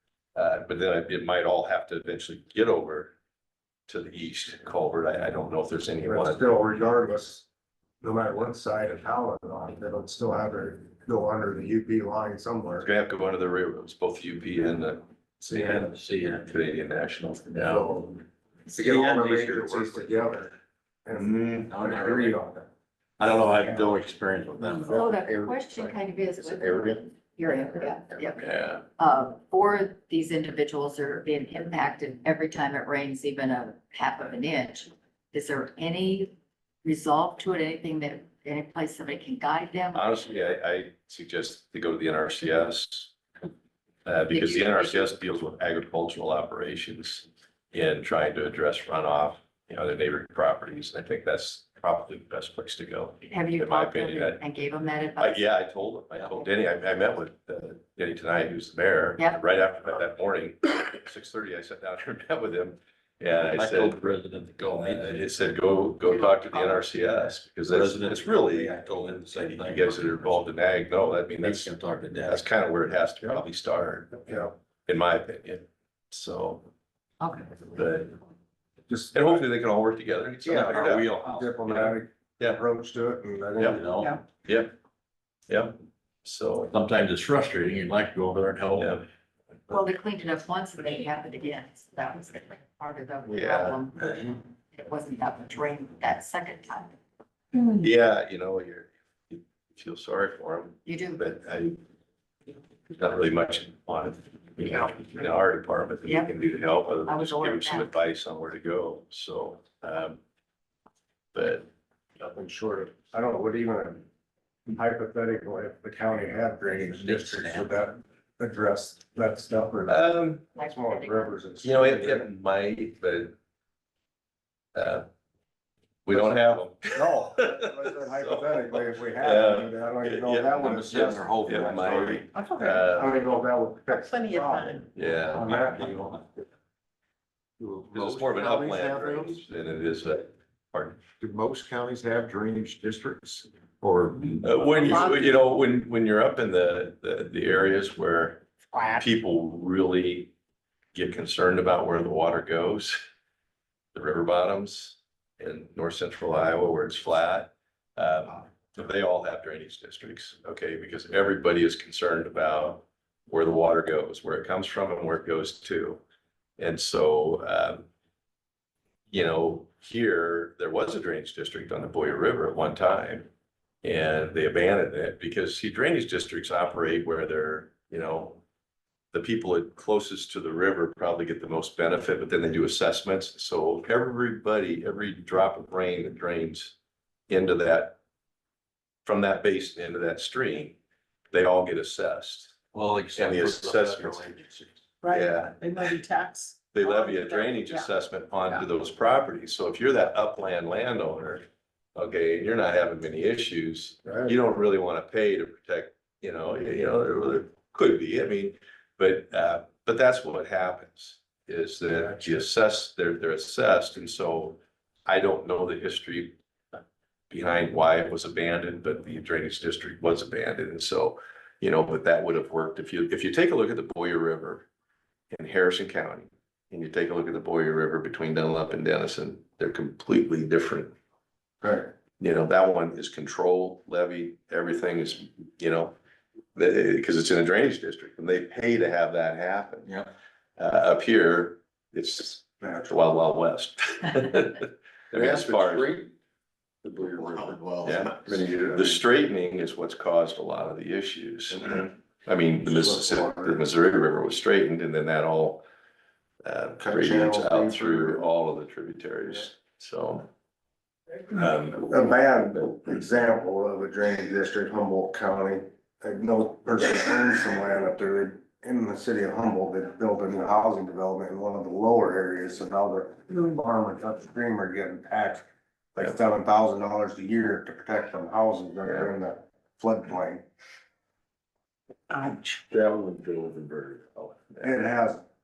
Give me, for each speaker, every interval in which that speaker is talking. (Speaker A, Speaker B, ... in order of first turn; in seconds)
Speaker A: 0.3-3.1, 3.9-6.4, 12.8-15.0, 16.4-18.1, 21.2-21.7, 28.4-28.8, 39.9-43.1, 44.0-54.4, 55.2-64.1, 64.7-71.7, 72.2-74.3, 74.8-76.7, 77.7-78.1, 79.1-81.1, 81.7-82.6, 84.4-84.7, 85.5-86.7, 88.8-89.0, 93.3-93.8, 97.8-101.8, 103.0-110.2, 111.3-111.7, 119.9-120.4, 121.6-123.3, 124.8-125.1, 126.1-133.1, 134.9-135.5, 137.9-141.0, 144.4-150.3, 150.9-153.0, 153.9-166.0, 166.6-167.9, 169.1-173.3, 173.8-178.4, 179.1-186.8, 187.3-188.0, 189.0-190.8, 191.3-192.6, 193.1-194.3, 195.1-195.9, 196.7-201.4, 201.9-216.3, 217.3-224.7, 225.3-230.9, 232.2-235.9, 236.5-239.9, 240.6-246.0, 247.8-255.6, 256.4-260.3, 261.3-261.9, 283.0-284.6
Speaker B: 6.0-7.5, 8.0-12.9, 17.6-18.1, 18.7-20.5, 21.1-22.7, 23.5-23.9, 74.2-74.5, 78.9-79.4, 80.4-83.8, 112.2-114.0, 114.7-120.0, 120.6-122.3, 126.1-136.4, 204.0-204.3, 211.9-212.4, 231.6-231.9, 242.6-243.0, 252.7-253.6, 256.8-258.3, 261.8-280.4, 284.6-285.2
Speaker C: 15.4-16.5, 18.7-20.3, 21.7-22.4, 23.2-25.1, 26.7-27.0, 63.4-65.2, 67.7-70.4, 71.4-72.4, 80.5-81.6, 83.6-84.2, 86.7-89.0, 116.9-117.7, 130.6-132.2, 192.7-194.8, 247.2-248.3
Speaker D: 24.9-40.1, 44.3-45.1, 53.3-55.4, 66.5-66.8, 77.2-77.8, 89.7-97.0, 100.8-101.2, 106.0-106.3, 107.0-107.9, 120.5-121.3
Speaker E: 25.2-25.8, 137.6-139.4, 141.2-145.0, 245.1-246.1, 246.8-249.0
Speaker F: 132.4-132.8, 133.9-134.8, 145.0-145.3, 195.0-197.9